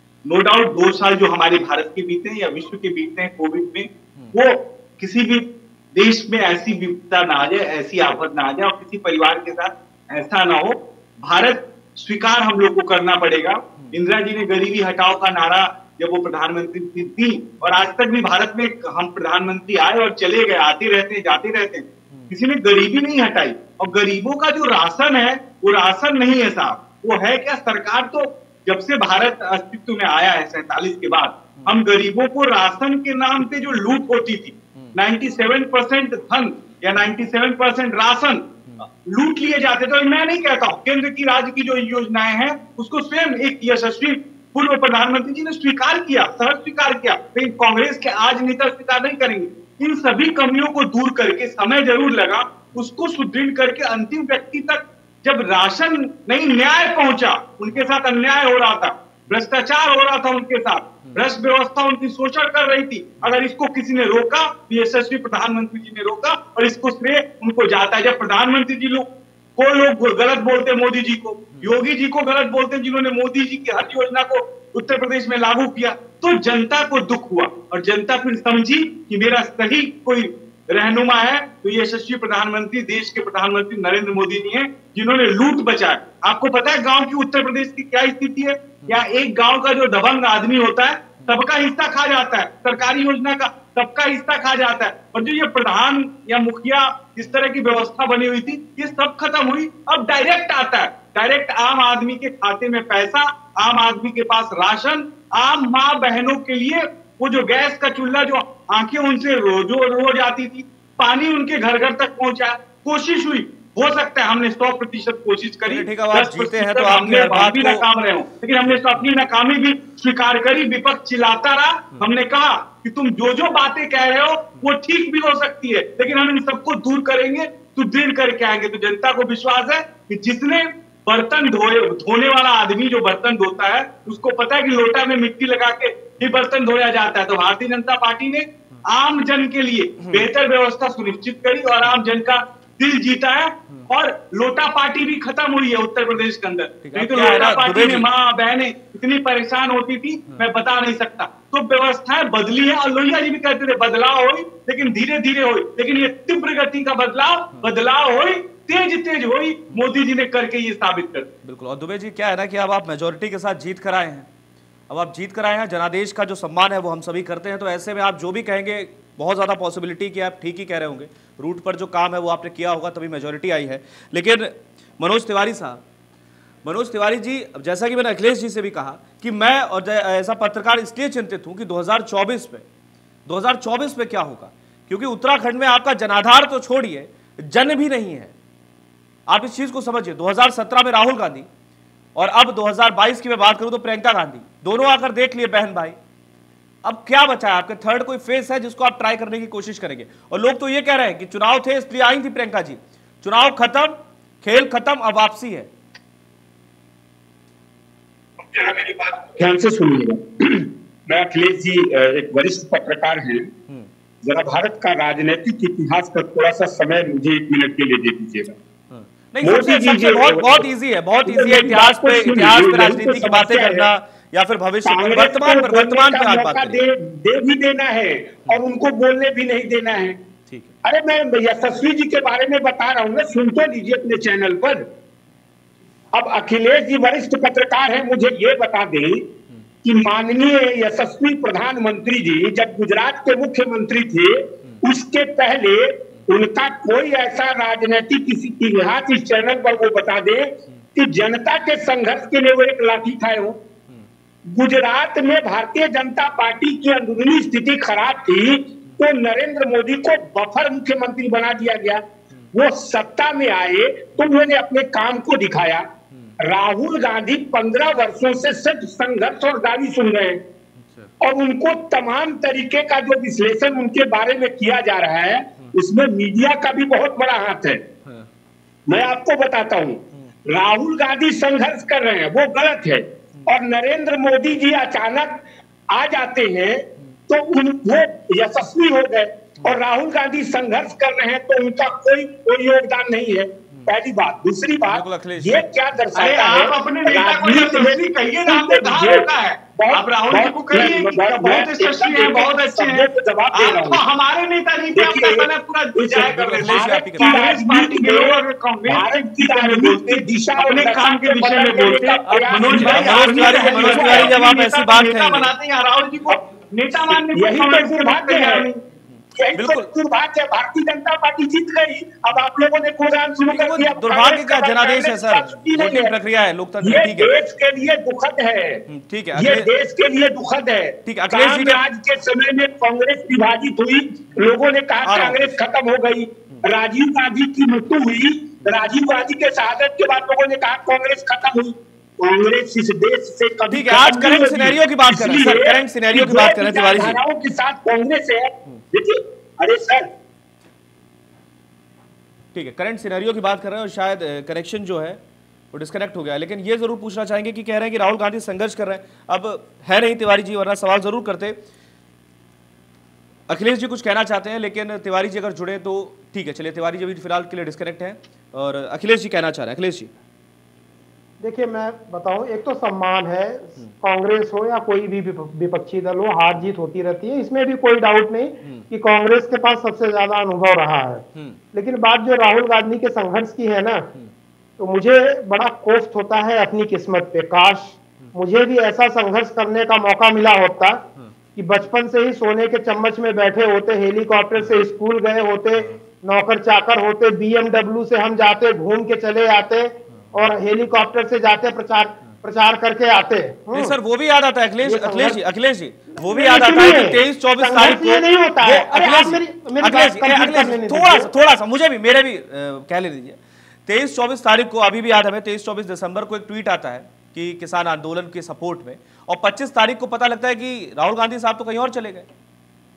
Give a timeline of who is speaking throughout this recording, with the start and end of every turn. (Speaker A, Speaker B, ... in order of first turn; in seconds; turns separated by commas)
Speaker A: 0.3-38.5, Speaker A: 39.0-161.3, Speaker B: 115.7-117.8, Speaker B: 146.8-148.1, Speaker B: 161.4-164.3, Speaker B: 164.9-175.8, Speaker B: 176.6-182.7, Speaker B: 183.3-188.3, Speaker B: 189.3-191.5, Speaker B: 192.2-196.0, Speaker B: 196.8-205.7, Speaker C: 208.4-213.5, Speaker C: 214.2-218.6, Speaker B: 218.9-226.8, Speaker C: 219.4-220.7, Speaker C: 221.3-223.9, Speaker C: 224.9-230.2, Speaker B: 230.5-230.7, Speaker C: 230.8-234.9, Speaker C: 236.1-239.3, Speaker C: 239.8-253.6, Speaker C: 254.5-265.9, Speaker C: 266.4-270.4, Speaker B: 270.8-271.1, Speaker C: 271.2-277.8, Speaker C: 278.9-304.0, Speaker B: 294.9-295.7, Speaker A: 296.1-318.8, Speaker C: 304.9-314.4, Speaker B: 306.6-307.6, Speaker B: 312.3-315.5, Speaker C: 317.3-318.7, Speaker C: 319.4-326.1, Speaker B: 319.5-319.9, Speaker B: 323.5-327.3, Speaker C: 326.8-350.1, Speaker B: 328.9-329.7, Speaker B: 331.1-331.8, Speaker B: 335.0-335.6, Speaker B: 343.7-347.2, Speaker B: 352.5-355.2, Speaker B: 355.7-361.6, Speaker B: 363.5-370.1, Speaker D: 371.4-384.1, Speaker D: 384.8-391.0, Speaker D: 391.6-404.0, Speaker B: 403.7-422.3, Speaker D: 404.8-405.4, Speaker D: 406.2-411.3